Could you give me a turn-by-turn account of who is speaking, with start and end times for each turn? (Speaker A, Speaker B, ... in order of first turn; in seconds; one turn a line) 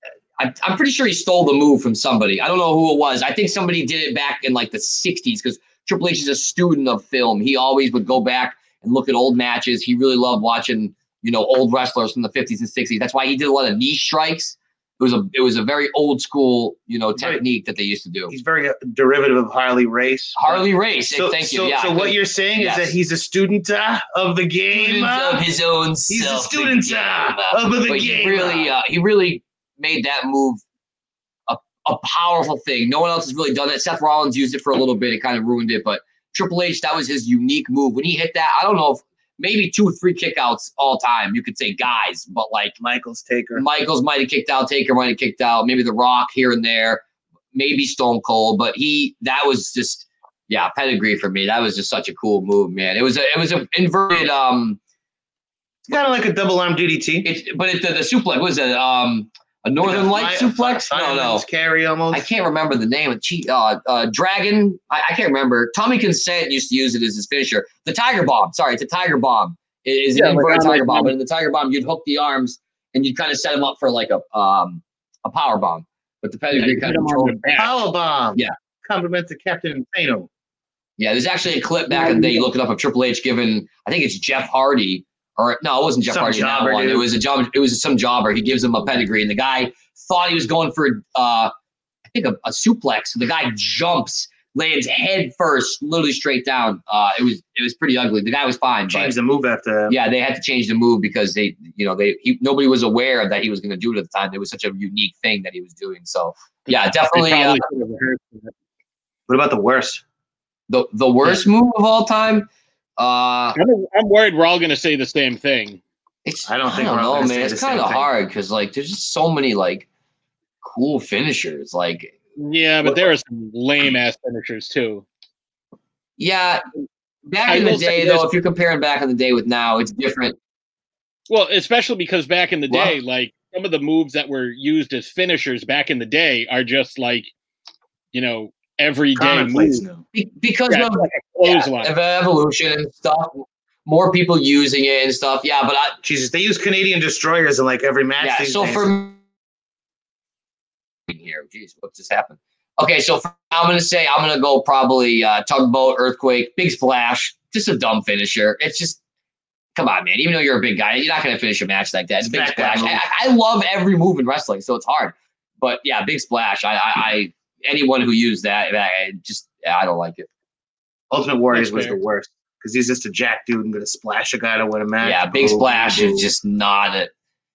Speaker A: 0.4-18.3
Speaker B: 17.2-17.4
Speaker B: 18.3-25.4
Speaker A: 20.4-22.9
Speaker A: 24.7-30.6
Speaker B: 26.1-28.7
Speaker A: 31.5-42.8
Speaker B: 42.8-43.6
Speaker A: 43.5-47.0
Speaker A: 47.5-54.8
Speaker B: 55.9-57.3
Speaker A: 57.2-61.4
Speaker B: 59.8-62.3
Speaker A: 62.1-77.4
Speaker C: 70.1-71.1
Speaker C: 76.5-77.8
Speaker B: 77.5-80.3
Speaker A: 81.0-91.5
Speaker B: 86.0-87.1
Speaker A: 92.1-99.1
Speaker B: 98.9-100.0
Speaker A: 99.9-107.6
Speaker C: 106.7-108.5
Speaker B: 109.3-110.0
Speaker A: 110.7-113.6
Speaker C: 113.5-115.8
Speaker A: 116.2-119.9
Speaker B: 116.5-118.1
Speaker A: 120.6-122.1
Speaker C: 122.4-125.0
Speaker A: 126.2-126.6
Speaker A: 127.3-130.4
Speaker C: 127.5-128.3
Speaker C: 131.3-137.3
Speaker C: 138.1-139.8
Speaker B: 139.2-140.0
Speaker A: 140.1-146.0
Speaker C: 140.7-141.9
Speaker B: 146.0-148.9
Speaker A: 148.2-149.2
Speaker A: 151.1-159.0
Speaker A: 159.7-170.3
Speaker B: 162.2-163.0
Speaker B: 171.1-176.3
Speaker C: 171.5-172.0
Speaker A: 175.0-177.1